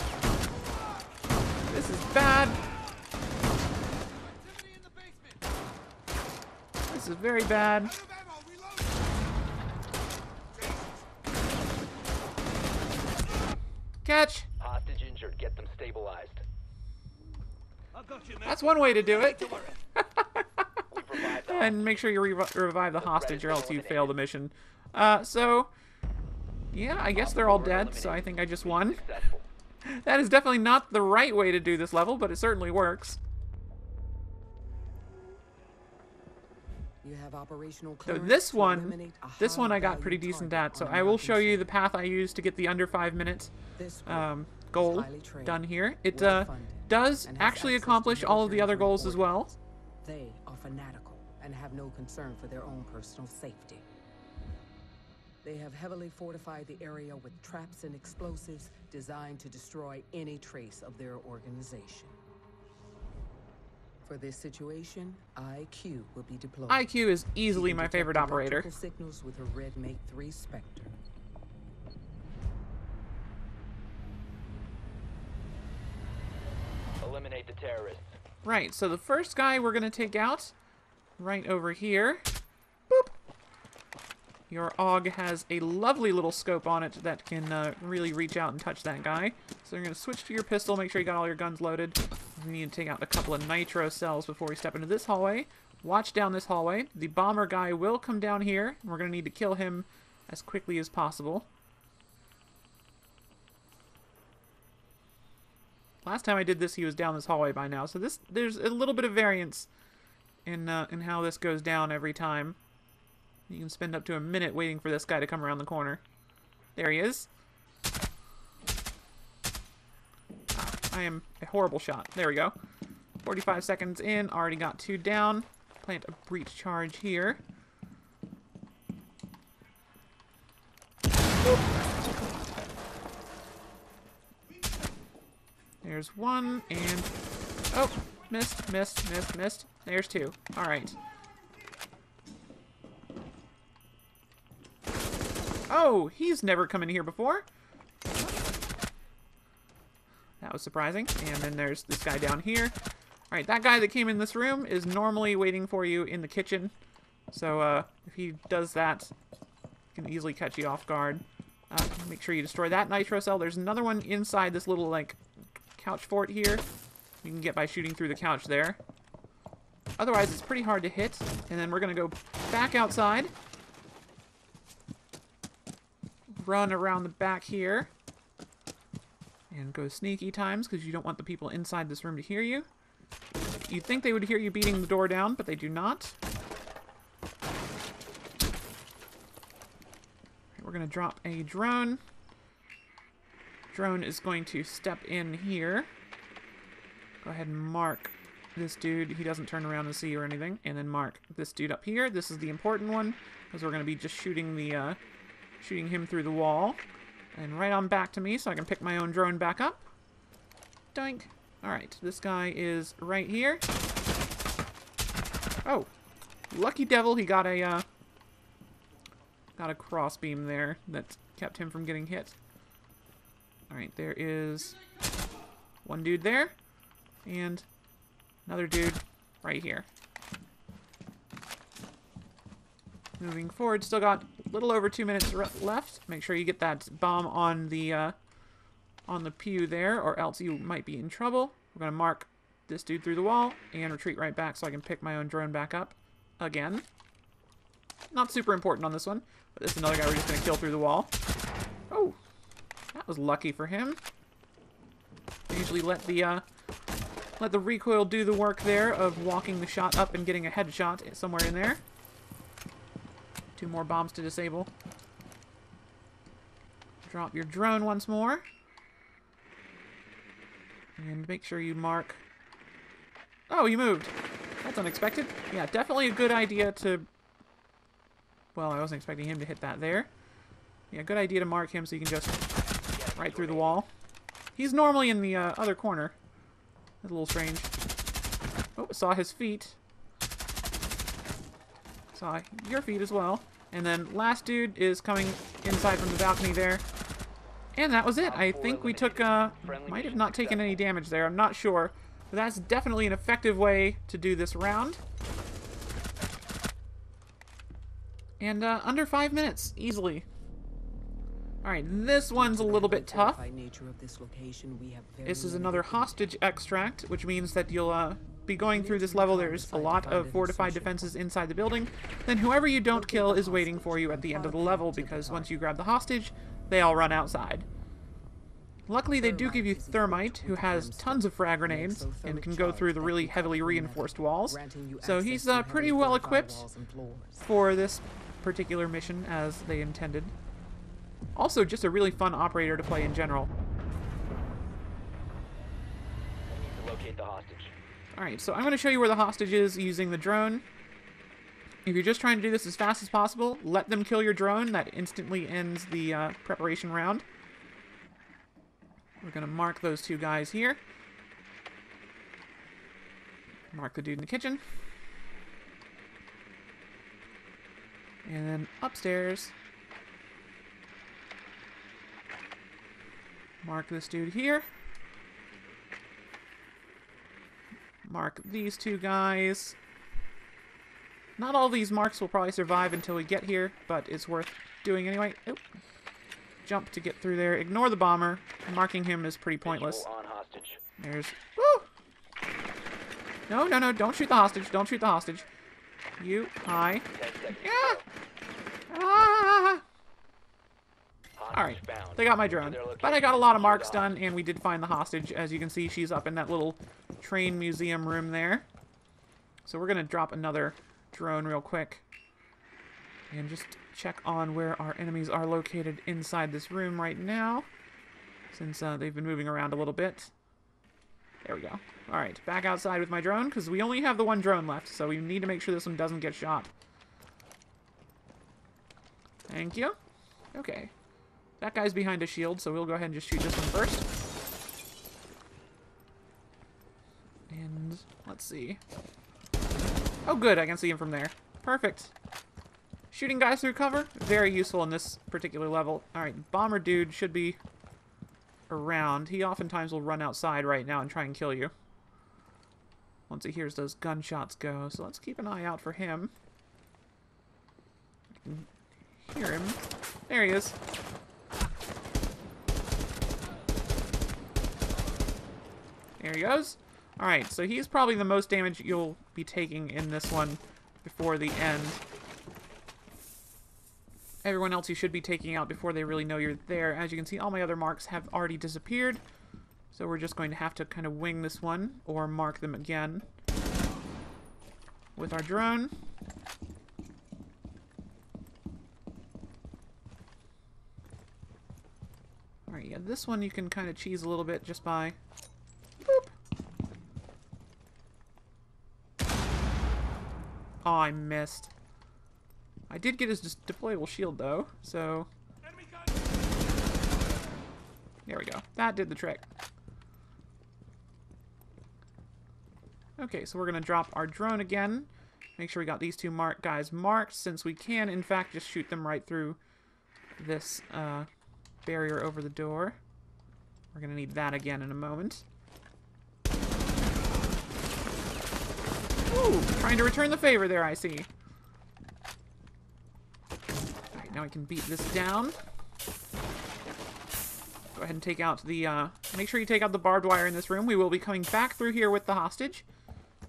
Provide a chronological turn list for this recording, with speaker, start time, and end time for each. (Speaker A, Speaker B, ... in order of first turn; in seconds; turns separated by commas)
Speaker A: 1.7-2.6, Speaker B: 4.0-5.5, Speaker A: 6.9-7.9, Speaker B: 7.7-9.2, Speaker B: 10.5-11.1, Speaker A: 14.0-14.5, Speaker C: 14.6-16.4, Speaker B: 17.9-19.8, Speaker A: 18.4-20.8, Speaker C: 20.9-22.2, Speaker A: 21.4-25.7, Speaker C: 23.0-24.2, Speaker A: 26.7-29.0, Speaker C: 27.1-29.5, Speaker A: 29.8-33.2, Speaker D: 37.0-41.7, Speaker A: 38.1-43.5, Speaker D: 43.8-53.9, Speaker A: 44.1-49.5, Speaker D: 55.4-62.2, Speaker D: 64.0-66.9, Speaker A: 66.7-68.7, Speaker D: 67.5-71.0, Speaker C: 77.0-78.2, Speaker A: 78.4-80.5, Speaker A: 81.2-82.2, Speaker A: 84.5-101.5, Speaker A: 106.0-109.7, Speaker A: 110.5-112.6, Speaker A: 113.5-116.0, Speaker A: 116.8-117.3, Speaker A: 120.5-122.5, Speaker A: 123.2-127.4, Speaker A: 135.8-137.1, Speaker A: 137.7-141.0, Speaker A: 145.7-147.5, Speaker A: 150.4-152.8, Speaker A: 153.3-156.7, Speaker A: 157.3-159.1, Speaker A: 159.9-165.2, Speaker A: 165.8-166.7, Speaker A: 167.2-168.8, Speaker A: 170.0-173.3, Speaker A: 176.3-177.9, Speaker A: 179.5-182.7, Speaker A: 183.6-186.2, Speaker A: 190.6-192.0, Speaker A: 193.7-195.9, Speaker A: 197.2-205.0, Speaker A: 205.6-206.8, Speaker A: 207.3-209.9, Speaker A: 210.9-213.6, Speaker A: 216.5-217.8, Speaker A: 219.6-222.3, Speaker A: 223.7-224.8, Speaker A: 225.8-226.6, Speaker A: 227.2-227.7, Speaker A: 228.5-229.9, Speaker A: 233.2-238.2, Speaker A: 239.1-246.9, Speaker A: 248.1-251.1, Speaker A: 251.9-252.2, Speaker A: 252.9-254.0, Speaker A: 255.5-256.4, Speaker A: 257.4-261.8, Speaker A: 263.6-264.7, Speaker A: 267.1-268.5, Speaker A: 271.0-272.2, Speaker A: 273.5-277.1, Speaker A: 278.6-280.1, Speaker A: 280.9-282.5, Speaker C: 282.9-283.9, Speaker A: 283.1-283.9, Speaker A: 284.6-286.2, Speaker A: 287.0-287.7, Speaker A: 288.8-289.8, Speaker A: 292.1-296.9, Speaker A: 297.8-305.0, Speaker C: 298.2-300.8, Speaker A: 308.4-310.3, Speaker A: 311.6-313.4, Speaker D: 312.3-316.3, Speaker A: 315.2-327.7, Speaker D: 318.7-321.2, Speaker D: 322.9-325.6, Speaker A: 328.9-336.7, Speaker D: 329.1-337.5, Speaker A: 337.4-340.3, Speaker A: 341.4-343.5, Speaker C: 346.5-347.7, Speaker A: 348.1-350.6, Speaker A: 351.9-357.2, Speaker A: 359.2-360.8, Speaker A: 363.7-364.6, Speaker A: 368.2-369.5, Speaker A: 373.6-374.7, Speaker A: 378.0-379.8, Speaker A: 381.4-385.6, Speaker A: 386.6-390.1, Speaker C: 389.6-390.8, Speaker A: 391.0-391.9, Speaker A: 393.5-395.5, Speaker A: 396.2-398.0, Speaker C: 397.1-398.0, Speaker A: 398.9-399.8, Speaker C: 401.4-404.1, Speaker A: 401.5-408.7, Speaker A: 409.6-412.0, Speaker A: 413.3-417.7, Speaker A: 418.5-420.3, Speaker A: 421.4-426.7, Speaker A: 429.5-429.9, Speaker A: 430.5-430.9, Speaker A: 431.6-434.1, Speaker A: 437.5-438.8, Speaker A: 440.3-442.1, Speaker A: 443.1-447.6, Speaker A: 448.7-451.7, Speaker A: 453.3-456.3, Speaker A: 458.4-458.7, Speaker A: 459.2-460.8, Speaker A: 466.2-472.0, Speaker A: 474.4-479.2, Speaker A: 479.9-483.3, Speaker A: 485.1-485.9, Speaker A: 492.7-495.2, Speaker A: 496.1-496.3, Speaker A: 500.8-501.7, Speaker A: 502.9-505.3, Speaker A: 508.3-509.4, Speaker A: 513.2-519.6, Speaker A: 520.4-521.3, Speaker A: 521.9-523.0, Speaker A: 523.9-525.5, Speaker A: 529.3-531.3, Speaker A: 534.1-535.6, Speaker A: 537.9-542.9